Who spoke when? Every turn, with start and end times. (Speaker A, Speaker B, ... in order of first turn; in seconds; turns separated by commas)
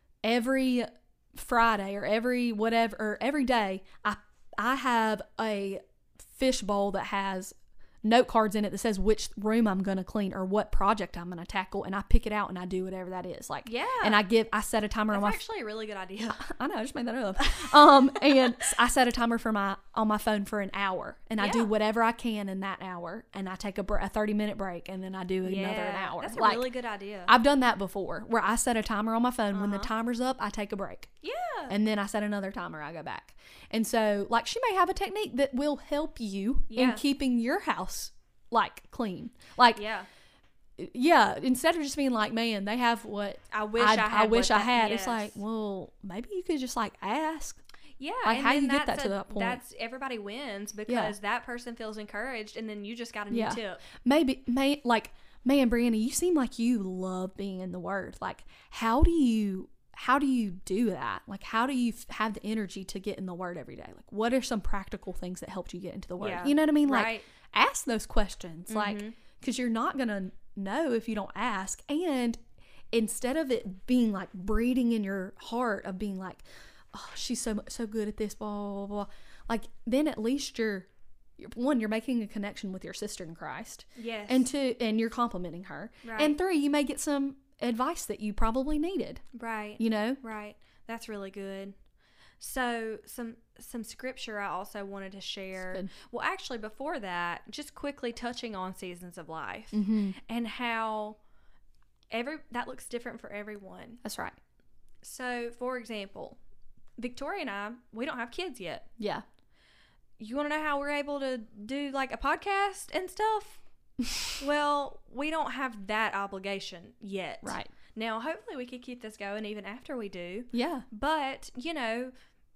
Speaker A: 0.2-15.4, Speaker B: 13.6-14.2, Speaker B: 15.1-16.4, Speaker A: 16.4-26.7, Speaker B: 21.4-21.7, Speaker B: 25.4-27.3, Speaker A: 27.3-31.1, Speaker B: 29.5-29.9, Speaker B: 31.2-31.7, Speaker A: 31.7-39.8, Speaker B: 36.7-37.0, Speaker B: 39.7-40.1, Speaker A: 40.8-47.6, Speaker B: 43.5-45.4, Speaker B: 48.0-53.8, Speaker A: 48.2-49.6, Speaker A: 50.9-51.1, Speaker A: 53.3-72.4, Speaker B: 66.2-67.3, Speaker B: 68.7-69.2, Speaker A: 72.9-89.2, Speaker B: 84.0-84.5, Speaker B: 86.0-86.4, Speaker B: 89.3-91.7, Speaker A: 89.8-90.2, Speaker B: 92.4-101.2, Speaker A: 95.6-95.9, Speaker A: 99.7-100.2, Speaker B: 102.1-104.0, Speaker A: 104.0-104.4, Speaker B: 105.0-106.4, Speaker B: 107.0-108.9, Speaker A: 109.0-109.2, Speaker B: 110.2-113.6, Speaker B: 114.4-122.1, Speaker A: 117.4-117.7, Speaker A: 120.5-120.8